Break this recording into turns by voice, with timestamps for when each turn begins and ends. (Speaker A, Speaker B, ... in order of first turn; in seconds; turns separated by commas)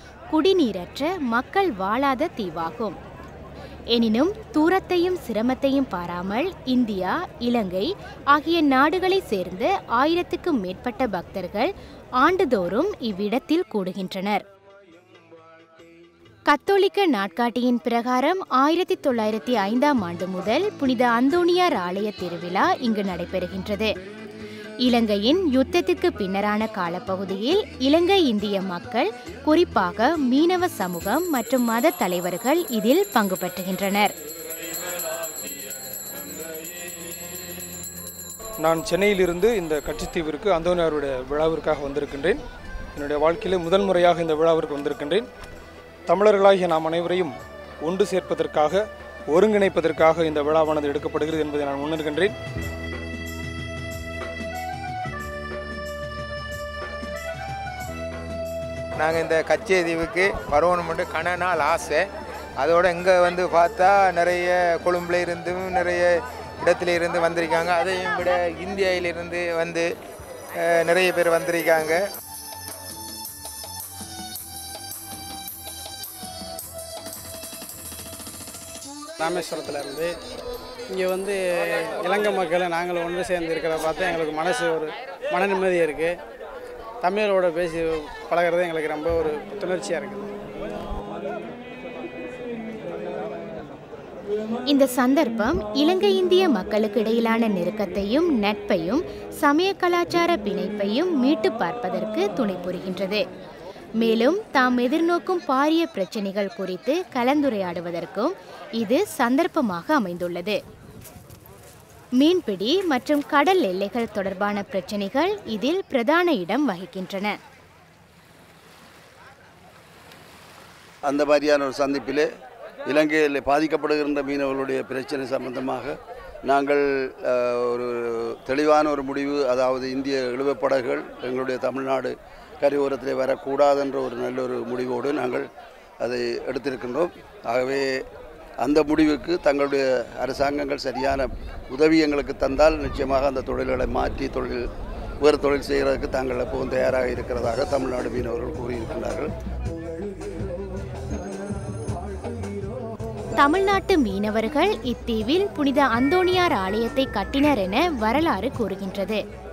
Speaker A: 0.3-3.0, Speaker A: 3.9-14.4, Speaker A: 16.5-23.9, Speaker A: 24.8-34.1, Speaker B: 38.6-42.4, Speaker B: 43.0-45.3, Speaker B: 46.1-52.3, Speaker C: 59.0-62.1, Speaker C: 62.6-69.9, Speaker C: 70.5-72.0, Speaker D: 79.2-80.2, Speaker D: 80.9-86.2, Speaker D: 87.0-90.3, Speaker A: 94.7-103.2, Speaker A: 104.0-110.6, Speaker A: 112.2-117.4, Speaker E: 121.0-122.3, Speaker E: 122.8-135.5, Speaker E: 136.0-138.0, Speaker E: 138.6-144.6, Speaker E: 145.2-149.3, Speaker A: 153.3-159.2